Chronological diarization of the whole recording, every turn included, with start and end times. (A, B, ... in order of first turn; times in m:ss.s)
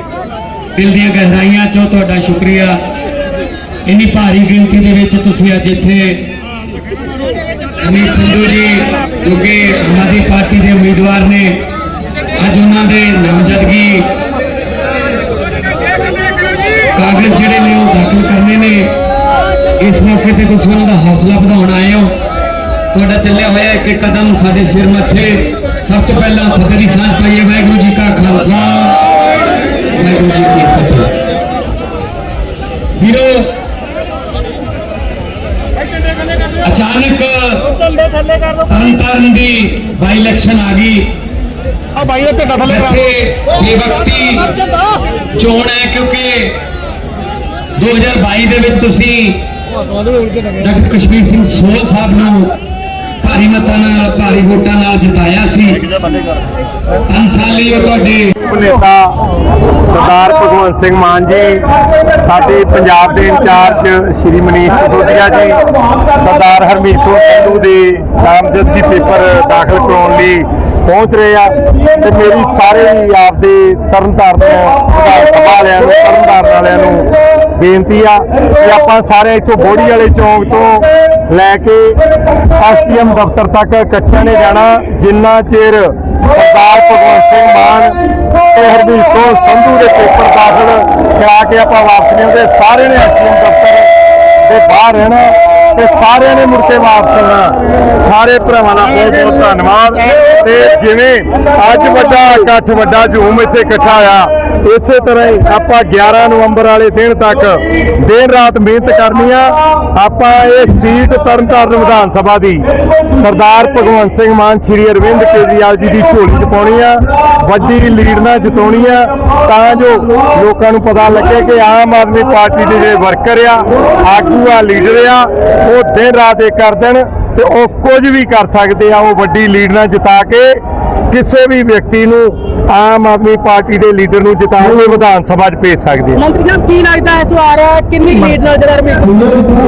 0:00.7-0:02.8 A
0:03.8-0:06.3 A
0:07.8-0:11.7 A
0:12.3-0:14.1 A
0:16.9-0:19.0 A
0:19.8-0:22.1 A
0:22.9-0:29.0 A
0:29.9-0:31.1 A
0:33.0-0:33.5 A
0:36.6-0:37.8 A
0:38.0-0:38.5 B
0:38.5-0:41.1 A
0:42.0-0:42.6 B
0:42.6-0:44.7 A
0:45.3-0:46.6 A
0:47.8-0:49.4 A
0:50.5-0:52.5 A
0:53.2-0:55.9 A
0:57.1-0:58.3 A
0:58.4-0:59.2 C
0:59.8-1:05.6 C
1:06.1-1:22.0 C
1:22.6-1:33.9 C
1:34.4-2:16.2 C
2:16.2-2:19.4 B